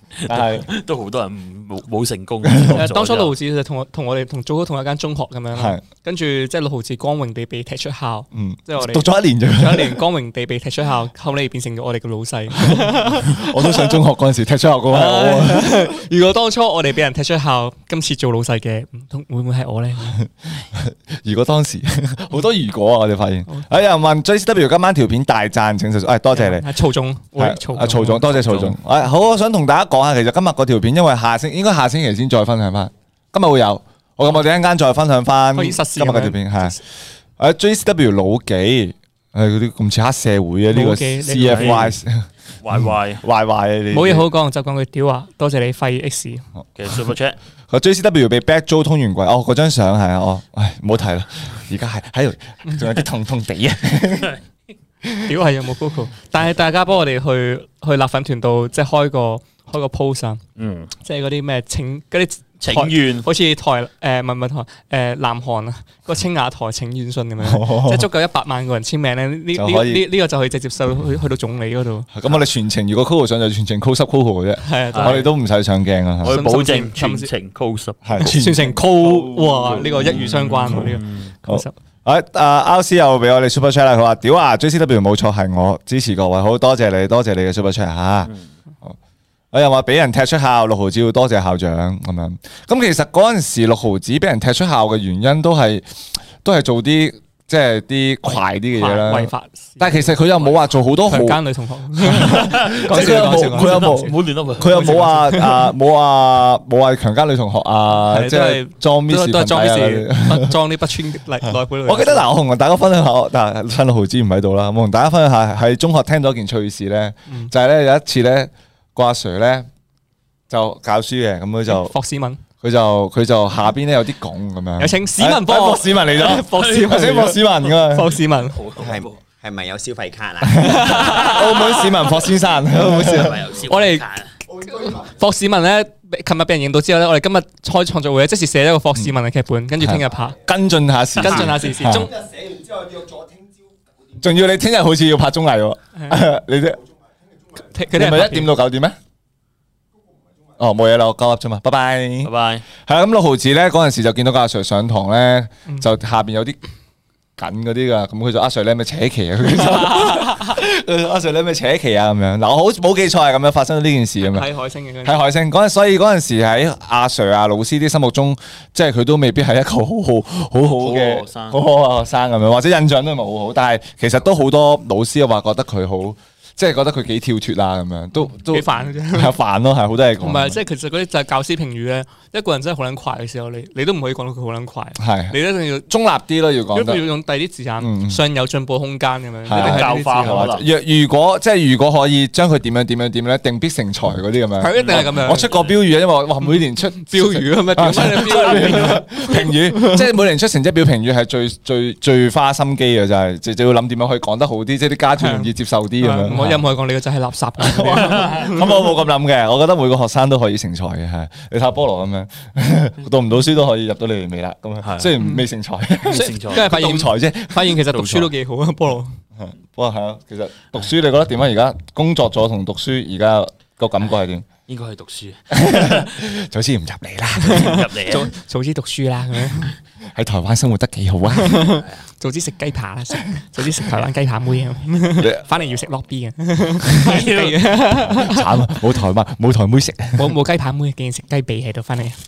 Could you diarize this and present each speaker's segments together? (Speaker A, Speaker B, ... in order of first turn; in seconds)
Speaker A: 0.2-3.3, 28.4-28.8, 41.5-42.0, 42.6-43.2, 46.8-47.4, 60.6-60.9, 62.6-63.3, 74.9-75.2, 76.2-78.0, 79.8-81.3, 100.2-100.6, 102.2-105.1, 128.4-129.2, 133.1-134.3, 152.2-152.7, 170.7-171.6, 189.5-190.7, 194.8-195.8, 214.8-215.1, 216.1-216.6, 224.7-226.1, 227.5-228.3, 237.1-237.6
Speaker B: 0.3-0.7, 2.5-2.8, 5.5-5.8, 8.3-10.0, 12.6-15.9, 20.1-26.7, 27.4-36.8, 37.4-42.3, 43.2-44.3, 47.7-54.4, 55.0-55.3, 67.4-68.1, 69.5-70.1, 72.1-76.4, 78.0-88.3, 89.5-95.9, 96.4-101.4, 102.0-110.6, 111.5-119.7, 120.5-121.9, 122.6-128.2, 130.4-133.4, 139.8-142.1, 144.2-146.8, 147.9-149.0, 150.6-156.6, 157.4-164.5, 165.1-180.6, 185.0-187.0, 187.8-188.2, 189.4-206.6, 207.6-218.3, 219.4-224.5, 225.5-227.8, 230.1-231.7, 235.2-235.5, 238.0-240.4
Speaker C: 2.7-13.9, 14.9-20.2, 26.3-28.3, 35.5-36.8, 40.7-41.9, 43.9-46.5, 55.3-60.4, 61.0-72.1, 74.6-75.3, 76.2-77.3, 78.2-81.7, 98.8-100.1, 101.1-104.2, 104.7-105.7, 108.1-112.3, 121.7-122.4, 124.8-128.6, 130.6-131.9, 133.7-134.1, 134.7-140.4, 141.2-142.1, 147.7-148.5, 159.6-160.5, 164.2-165.2, 178.5-179.3, 180.2-185.9, 186.7-190.6, 194.6-195.5, 197.0-200.0, 205.2-205.5, 206.0-208.7, 216.1-219.2, 227.4-229.7, 231.4-238.5, 240.2-242.2
Speaker D: 128.8-130.9